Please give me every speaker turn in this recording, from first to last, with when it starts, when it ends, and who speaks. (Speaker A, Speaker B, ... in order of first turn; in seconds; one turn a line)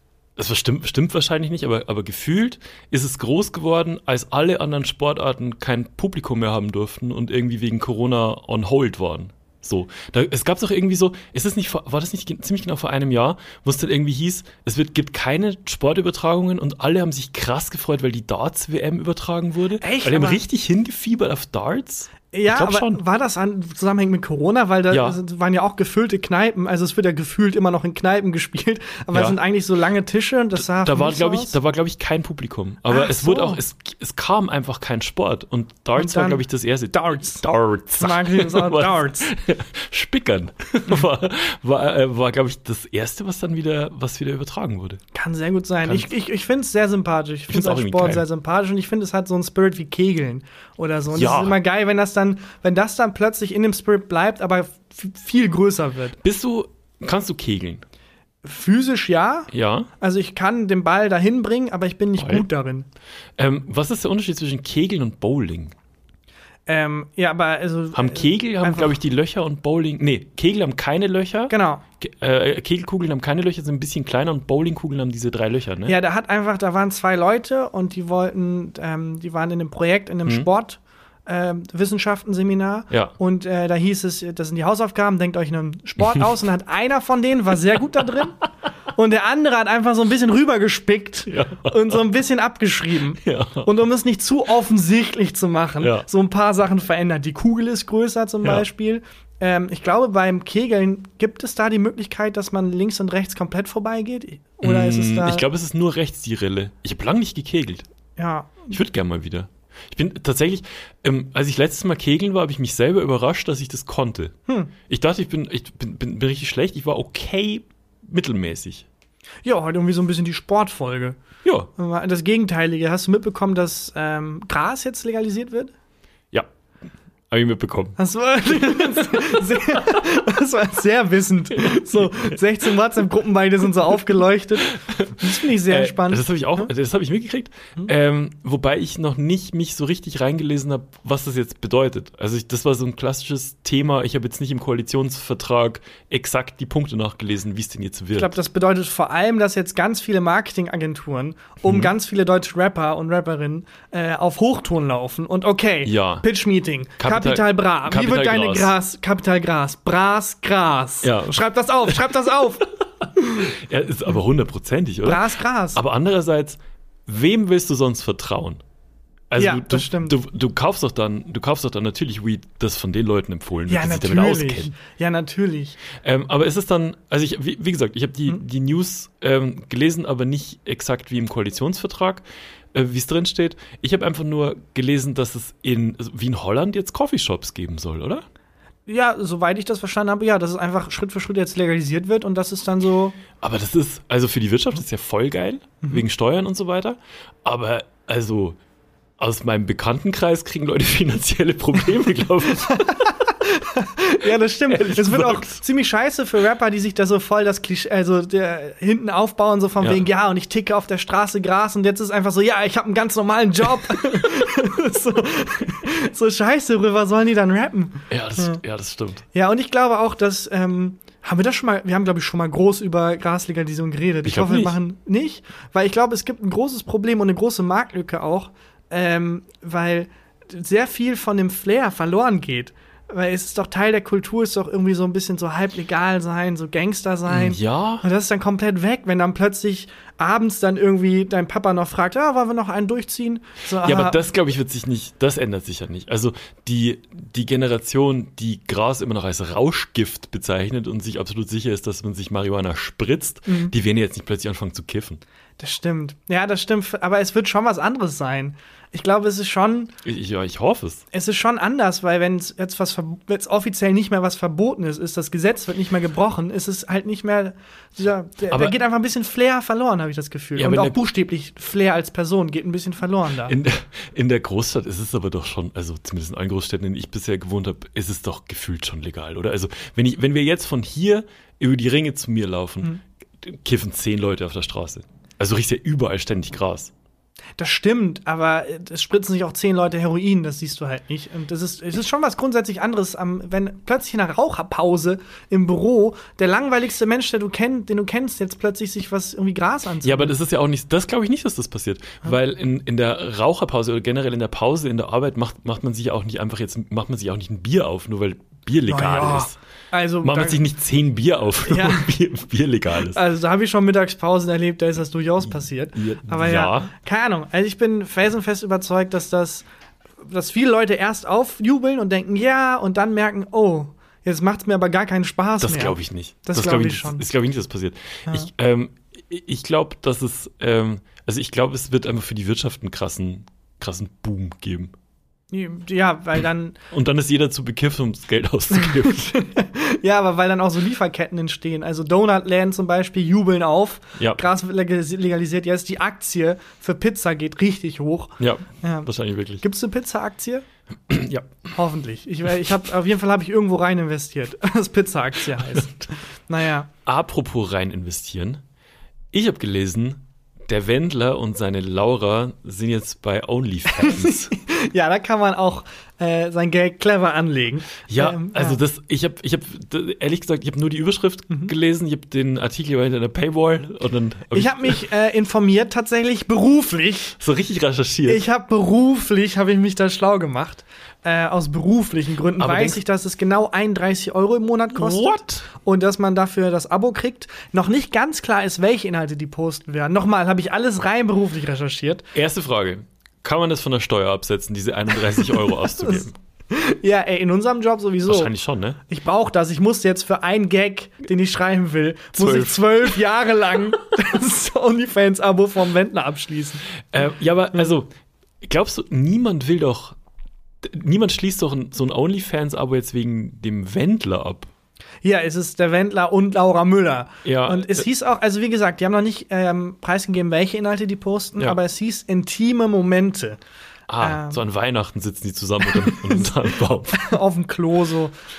Speaker A: 0.4-23.0
Speaker B: 19.8-20.4
Speaker B: 22.3-31.6
Speaker A: 24.9-25.2
Speaker A: 29.1-29.4
Speaker A: 30.6-45.0
Speaker B: 32.9-33.6
Speaker B: 36.0-37.5
Speaker B: 38.0-39.3
Speaker B: 45.1-56.2
Speaker A: 45.8-46.1
Speaker A: 47.5-48.2
Speaker A: 51.1-51.6
Speaker A: 56.2-57.8
Speaker B: 58.4-62.9
Speaker A: 59.5-59.9
Speaker A: 62.2-62.5
Speaker A: 63.4-65.8
Speaker B: 66.7-69.0
Speaker A: 67.9-76.0
Speaker B: 71.5-71.8
Speaker B: 75.9-88.4
Speaker A: 82.9-83.1
Speaker B: 88.9-105.5
Speaker A: 91.3-92.0
Speaker A: 93.2-93.7
Speaker A: 95.8-96.1
Speaker A: 104.6-107.9
Speaker B: 108.2-108.8
Speaker A: 108.7-114.3
Speaker A: 114.9-118.9
Speaker B: 119.5-121.2
Speaker A: 121.4-121.7
Speaker B: 121.8-125.7
Speaker A: 127.3-128.0
Speaker B: 128.0-136.7
Speaker A: 128.5-129.8
Speaker A: 131.7-132.3
Speaker A: 134.8-148.4
Speaker B: 148.1-163.5
Speaker A: 151.6-151.9
Speaker A: 155.8-156.2
Speaker A: 157.0-158.7
Speaker A: 161.0-162.2
Speaker A: 163.4-168.6
Speaker B: 165.0-165.8
Speaker A: 169.3-174.7
Speaker B: 169.4-170.2
Speaker B: 173.7-175.8
Speaker A: 176.0-182.2
Speaker A: 182.7-188.2
Speaker B: 188.9-193.2
Speaker A: 193.4-198.6
Speaker A: 199.2-203.1
Speaker B: 202.6-218.6
Speaker A: 204.7-205.6
Speaker A: 218.1-219.2
Speaker B: 219.3-244.2
Speaker A: 224.2-224.8
Speaker A: 237.3-238.1
Speaker A: 243.8-255.2
Speaker B: 253.5-253.7
Speaker B: 255.6-259.9
Speaker A: 260.0-261.0
Speaker B: 261.1-273.6
Speaker A: 268.5-268.8
Speaker A: 270.6-271.0
Speaker A: 273.4-286.9
Speaker B: 287.6-300.4
Speaker A: 300.0-309.6
Speaker B: 308.9-310.6
Speaker A: 310.2-313.2
Speaker B: 311.6-312.1
Speaker B: 313.1-319.6
Speaker A: 315.9-316.9
Speaker B: 320.2-327.3
Speaker A: 325.6-334.9
Speaker B: 335.5-336.8
Speaker A: 336.9-339.4
Speaker B: 338.8-349.1
Speaker A: 344.2-344.4
Speaker A: 348.4-349.6
Speaker B: 349.6-350.6
Speaker A: 351.1-351.6
Speaker B: 351.7-356.9
Speaker A: 357.1-358.6
Speaker A: 359.3-364.5
Speaker B: 363.9-368.8
Speaker A: 368.1-375.0
Speaker B: 374.5-377.4
Speaker A: 377.4-378.4
Speaker B: 378.3-392.2
Speaker A: 382.6-383.0
Speaker A: 384.9-385.6
Speaker A: 392.4-396.3
Speaker B: 395.9-398.5
Speaker A: 398.3-399.0
Speaker B: 399.1-406.9
Speaker A: 402.4-403.1
Speaker A: 407.1-408.1
Speaker A: 408.6-410.1
Speaker A: 410.8-414.7
Speaker B: 415.2-423.6
Speaker A: 417.4-418.1
Speaker A: 424.1-427.3
Speaker B: 424.2-424.6
Speaker B: 426.0-426.5
Speaker B: 427.1-428.3